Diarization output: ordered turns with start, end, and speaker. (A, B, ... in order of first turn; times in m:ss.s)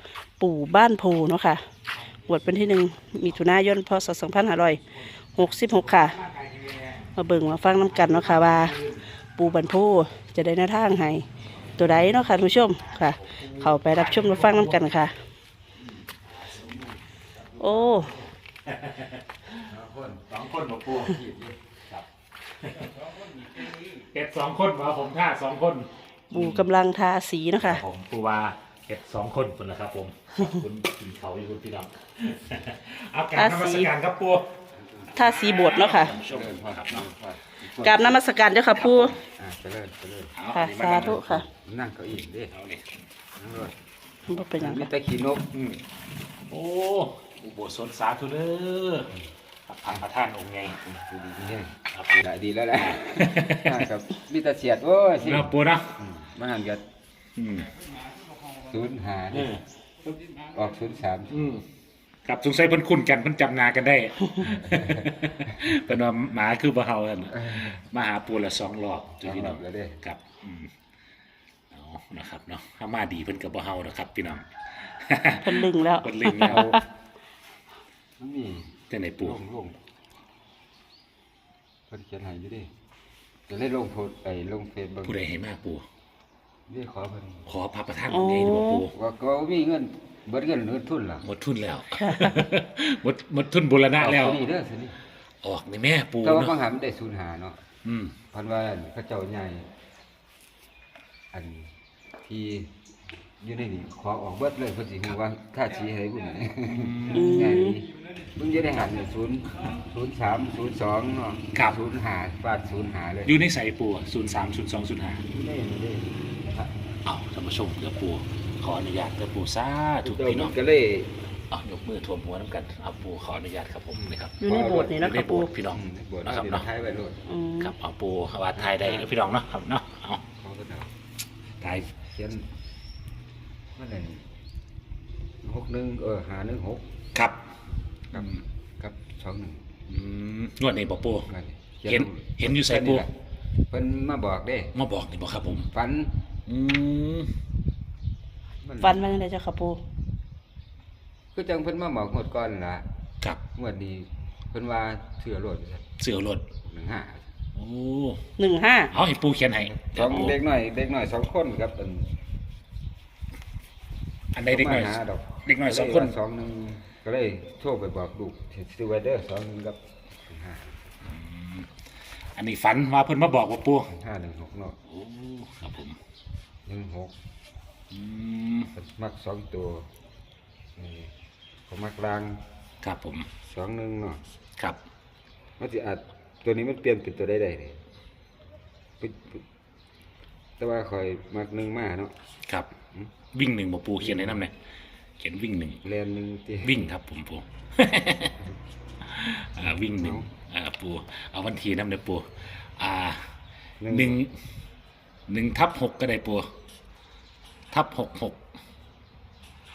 0:00.4-0:01.6 A
0:02.2-0:04.8 A
0:05.4-0:06.2 A
0:07.2-0:08.8 A
0:09.4-0:15.2 A
0:13.3-0:14.8 B
0:17.6-0:18.2 A
0:18.7-0:19.2 B
0:19.7-0:20.3 C
0:20.3-0:21.2 B
0:20.9-0:21.6 C
0:22.6-0:26.7 B
0:26.3-0:27.8 A
0:27.6-0:34.5 B
0:33.4-0:33.9 A
0:34.8-0:35.1 C
0:35.2-0:36.2 A
0:35.2-0:37.1 B
0:36.2-0:38.2 C
0:37.8-0:39.2 A
0:38.7-0:39.2 B
0:39.4-0:40.3 C
0:40.4-0:41.4 B
0:40.5-0:41.4 A
0:41.3-0:42.5 C
0:42.5-0:42.9 B
0:43.4-0:43.8 C
0:44.3-0:44.9 A
0:44.6-0:45.4 C
0:45.5-0:45.8 B
0:46.5-0:49.1 B
0:49.7-0:50.8 B
0:50.8-0:56.8 C
0:51.9-0:52.2 B
0:52.8-0:53.9 B
0:55.2-0:55.9 B
0:57.4-0:57.7 B
0:58.6-0:59.6 C
0:59.3-0:59.6 B
1:00.4-1:01.5 C
1:01.3-1:01.6 B
1:02.3-1:10.7 B
1:04.4-1:05.1 C
1:07.3-1:07.8 C
1:09.2-1:10.0 C
1:11.7-1:16.7 B
1:15.4-1:16.8 A
1:16.4-1:16.8 C
1:18.2-1:19.8 C
1:18.9-1:19.4 B
1:21.9-1:22.7 C
1:23.5-1:25.2 C
1:25.0-1:25.8 B
1:26.7-1:27.5 C
1:27.5-1:28.9 B
1:28.1-1:28.8 A
1:28.9-1:31.2 C
1:31.2-1:34.4 B
1:31.9-1:32.2 A
1:34.0-1:35.0 C
1:35.4-1:36.5 B
1:36.2-1:37.6 C
1:37.8-1:38.2 B
1:38.3-1:39.7 C
1:41.3-1:41.7 C
1:42.2-1:42.7 C
1:43.4-1:53.4 C
1:46.7-1:47.4 B
1:47.1-1:47.8 A
1:53.3-1:55.3 B
1:55.3-1:57.0 C
1:57.0-2:00.5 B
2:00.0-2:01.1 C
2:01.5-2:06.6 B
2:04.0-2:05.0 C
2:04.4-2:05.5 A
2:05.7-2:07.3 C
2:07.3-2:07.7 A
2:07.6-2:10.2 B
2:08.6-2:09.1 C
2:10.4-2:10.9 C
2:11.6-2:11.9 B
2:11.6-2:12.5 C
2:13.8-2:14.3 C
2:15.4-2:16.8 C
2:17.2-2:17.4 B
2:18.1-2:19.6 C
2:19.9-2:21.3 B
2:21.3-2:23.1 C
2:21.9-2:23.0 B
2:23.7-2:24.8 C
2:24.8-2:25.7 B
2:25.7-2:26.2 C
2:26.5-2:27.3 B
2:28.6-2:29.1 C
2:28.8-2:29.8 A
2:31.3-2:32.9 C
2:33.6-2:35.9 C
2:36.0-2:36.5 B
2:36.6-2:37.3 C
2:37.6-2:38.2 B
2:38.4-2:38.9 A
2:38.9-2:40.4 B
2:39.6-2:42.1 C
2:44.3-2:46.1 B
2:44.5-2:50.8 C
2:51.1-2:51.7 B
2:52.4-2:53.9 B
2:53.9-2:54.8 C
2:54.9-2:56.0 B
2:56.7-2:57.1 C
2:57.9-2:58.7 B
2:58.7-2:59.9 C
3:00.8-3:01.1 C
3:01.7-3:02.4 C
3:02.8-3:03.3 B
3:03.4-3:04.2 C
3:05.6-3:07.8 C
3:09.0-3:09.4 C
3:10.6-3:12.2 C
3:13.3-3:14.5 B
3:14.0-3:14.4 C
3:15.2-3:15.8 B
3:15.8-3:16.9 C
3:16.6-3:18.4 B
3:19.0-3:23.3 B
3:19.7-3:20.3 C
3:23.8-3:24.2 C
3:23.9-3:24.3 B
3:25.3-3:26.5 B
3:27.7-3:28.4 B